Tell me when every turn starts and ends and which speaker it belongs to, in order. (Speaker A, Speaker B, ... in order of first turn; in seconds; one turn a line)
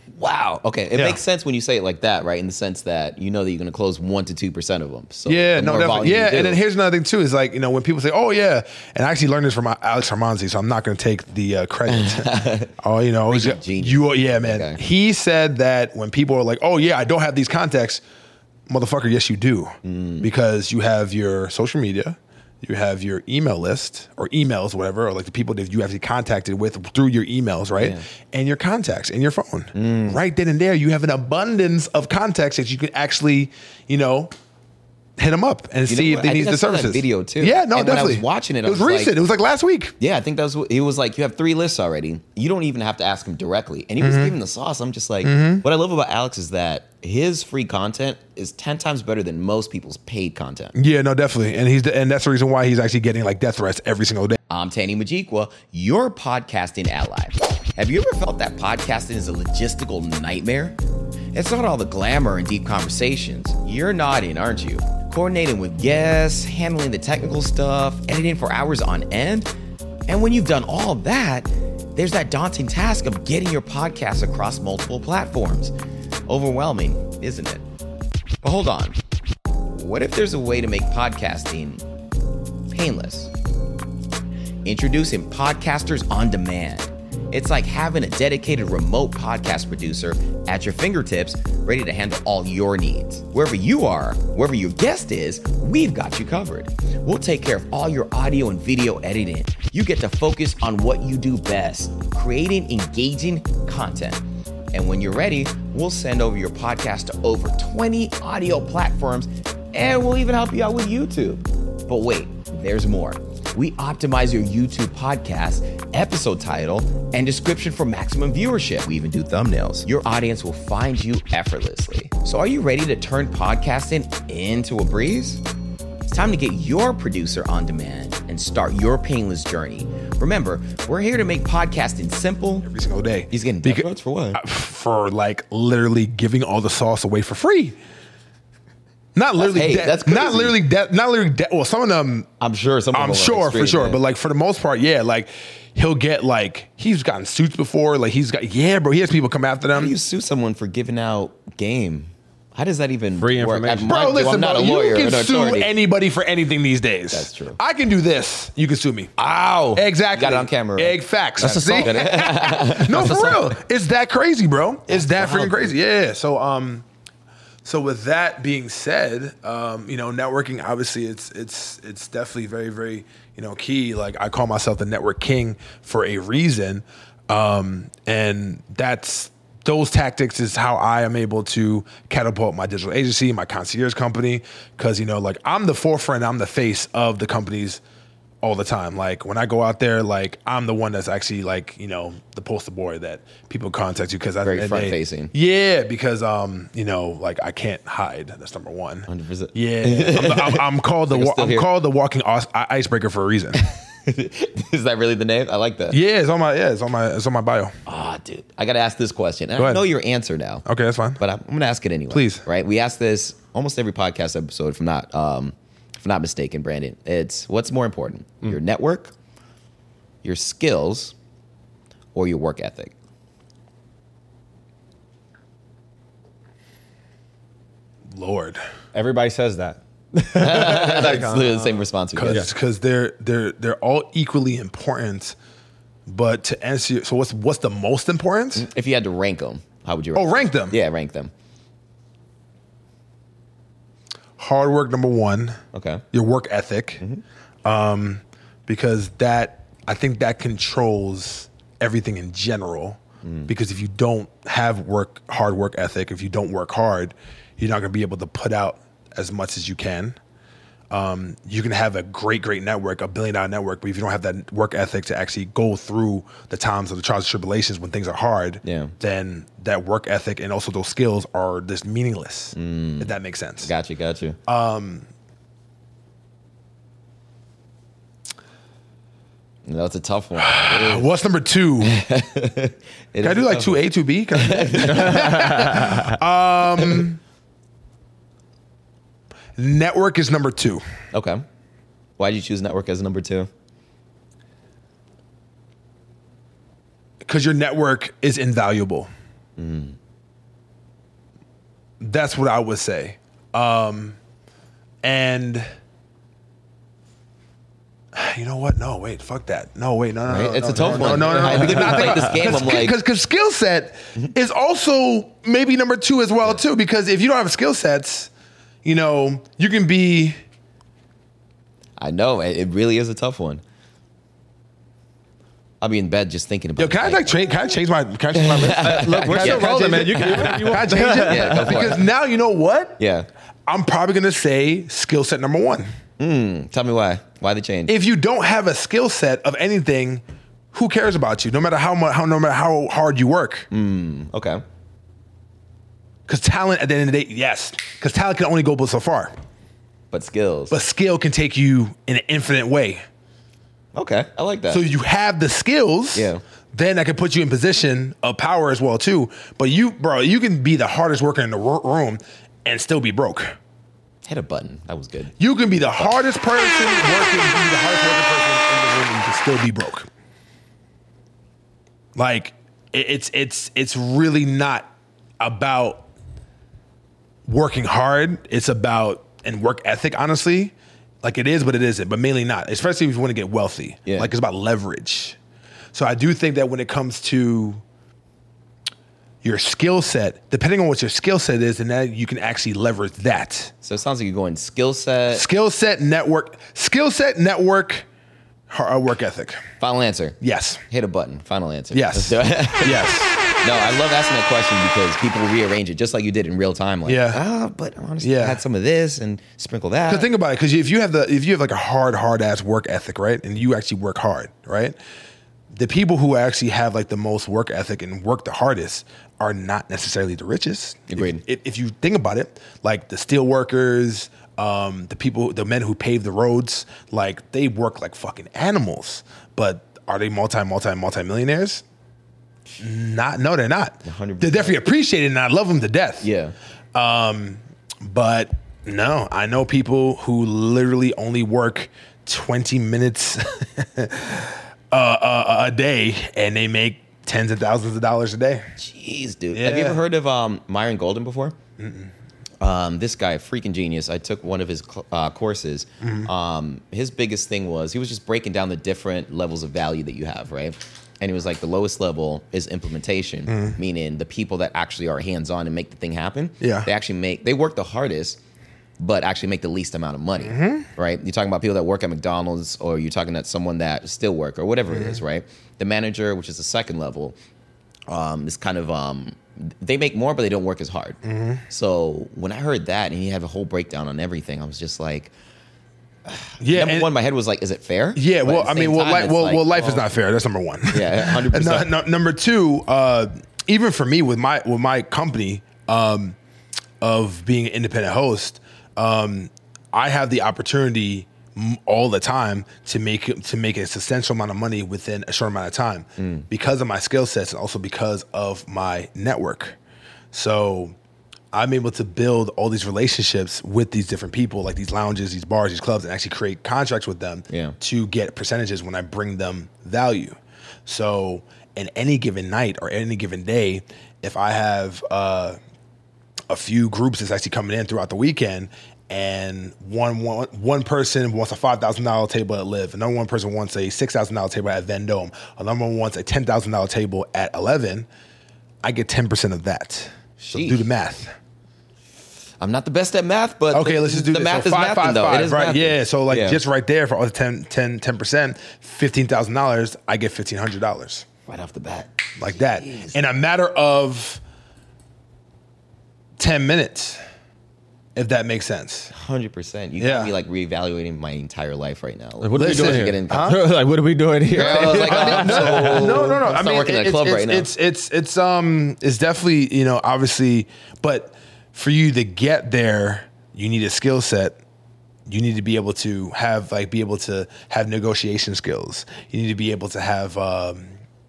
Speaker A: 0.2-6.6
Speaker B: 0.9-1.2
Speaker B: 5.3-18.0
Speaker A: 11.9-12.7
Speaker A: 13.3-14.8
Speaker B: 18.7-34.3
Speaker A: 19.8-20.3
Speaker A: 29.7-30.2
Speaker B: 35.2-39.9
Speaker A: 35.9-39.1
Speaker A: 40.0-50.7
Speaker B: 44.0-44.3
Speaker B: 45.2-45.6
Speaker B: 50.7-54.4
Speaker A: 54.5-60.8
Speaker A: 61.3-69.5
Speaker A: 70.1-75.7
Speaker A: 76.3-77.6
Speaker A: 78.4-79.0
Speaker A: 79.7-81.8
Speaker A: 82.7-83.3
Speaker A: 84.6-125.4
Speaker A: 126.1-132.7
Speaker B: 132.6-137.8
Speaker A: 133.3-134.4
Speaker B: 139.2-142.3
Speaker A: 139.4-140.6
Speaker A: 142.4-144.0
Speaker B: 142.9-149.9
Speaker A: 149.7-155.7
Speaker C: 153.2-154.1
Speaker B: 153.8-159.1
Speaker A: 157.1-157.6
Speaker A: 159.2-160.9
Speaker B: 159.7-166.8
Speaker C: 161.4-162.1
Speaker A: 161.7-163.4
Speaker C: 162.9-163.4
Speaker A: 164.9-165.7
Speaker B: 167.6-187.8
Speaker B: 188.4-203.6
Speaker A: 194.4-195.3
Speaker A: 199.1-201.7
Speaker A: 203.6-206.0
Speaker B: 205.9-207.7
Speaker A: 207.8-210.6
Speaker B: 209.6-209.9
Speaker B: 210.7-211.2
Speaker A: 211.2-219.1
Speaker B: 212.1-212.4
Speaker A: 220.2-221.1
Speaker A: 222.1-222.9
Speaker B: 228.1-228.6
Speaker C: 228.9-232.5
Speaker A: 230.4-232.5
Speaker B: 232.2-235.3
Speaker B: 236.1-238.7
Speaker A: 238.6-241.3
Speaker B: 240.1-240.8
Speaker B: 244.4-245.6
Speaker A: 245.7-246.0
Speaker B: 246.1-247.0
Speaker B: 247.6-260.2
Speaker A: 253.2-253.5
Speaker B: 260.9-273.7
Speaker A: 268.6-268.9
Speaker A: 272.5-273.1
Speaker A: 273.6-274.4
Speaker B: 274.5-275.1
Speaker A: 279.6-281.1
Speaker B: 280.4-282.0
Speaker A: 281.8-283.8
Speaker B: 283.2-287.2
Speaker A: 284.3-285.6
Speaker C: 285.0-286.1
Speaker A: 286.8-287.0
Speaker B: 289.6-290.8
Speaker A: 291.1-291.4
Speaker A: 292.2-293.5
Speaker B: 297.2-299.1
Speaker A: 299.6-299.9
Speaker B: 302.0-304.2
Speaker B: 305.0-305.7
Speaker B: 308.1-318.3
Speaker A: 310.3-312.9
Speaker C: 310.8-312.2
Speaker B: 318.8-320.4
Speaker A: 322.0-323.6
Speaker A: 325.8-327.3
Speaker B: 326.8-333.0
Speaker A: 328.4-332.1
Speaker C: 328.6-332.0
Speaker A: 333.0-333.3
Speaker B: 333.7-335.9
Speaker A: 336.2-337.9
Speaker B: 337.9-343.7
Speaker A: 343.7-344.6
Speaker B: 346.3-349.3
Speaker A: 350.1-350.7
Speaker B: 350.7-353.0
Speaker A: 353.9-354.8
Speaker B: 354.7-363.5
Speaker A: 356.1-356.4
Speaker A: 364.2-365.4
Speaker B: 365.4-370.1
Speaker B: 372.1-376.1
Speaker B: 377.5-385.4
Speaker B: 385.9-387.8
Speaker B: 389.4-393.7
Speaker A: 393.8-395.4
Speaker B: 395.3-398.0
Speaker B: 398.7-399.6
Speaker A: 399.8-400.4
Speaker B: 400.4-400.8
Speaker A: 400.9-410.3
Speaker B: 401.9-403.4
Speaker B: 407.1-407.4
Speaker B: 408.2-408.6
Speaker B: 410.1-414.9
Speaker B: 415.7-431.8
Speaker A: 421.1-421.4
Speaker B: 432.8-436.3
Speaker A: 434.0-434.7
Speaker A: 436.2-436.5
Speaker B: 436.9-448.7
Speaker A: 448.8-451.5
Speaker B: 449.5-450.0
Speaker B: 451.8-452.1
Speaker A: 452.6-468.4
Speaker B: 456.0-456.3
Speaker B: 463.5-463.8
Speaker B: 466.6-466.9
Speaker A: 469.0-477.4
Speaker B: 470.4-470.9
Speaker B: 474.9-475.2
Speaker A: 478.1-485.3
Speaker B: 481.2-481.6
Speaker A: 486.2-490.1
Speaker B: 486.6-487.1
Speaker B: 488.1-496.4
Speaker A: 490.9-491.9
Speaker B: 497.0-509.8
Speaker A: 506.2-506.4
Speaker B: 510.3-510.9
Speaker B: 511.5-525.6
Speaker A: 517.5-517.7
Speaker B: 526.5-538.1
Speaker B: 538.8-541.3
Speaker A: 540.4-540.9
Speaker A: 542.6-546.6
Speaker B: 543.7-551.3
Speaker A: 551.5-553.1
Speaker B: 552.4-554.4
Speaker B: 556.4-557.2
Speaker B: 558.1-559.1
Speaker A: 559.1-563.6
Speaker B: 560.0-560.3
Speaker C: 562.4-566.3
Speaker B: 562.5-563.6
Speaker A: 564.5-567.7
Speaker B: 564.5-574.6
Speaker B: 575.3-580.9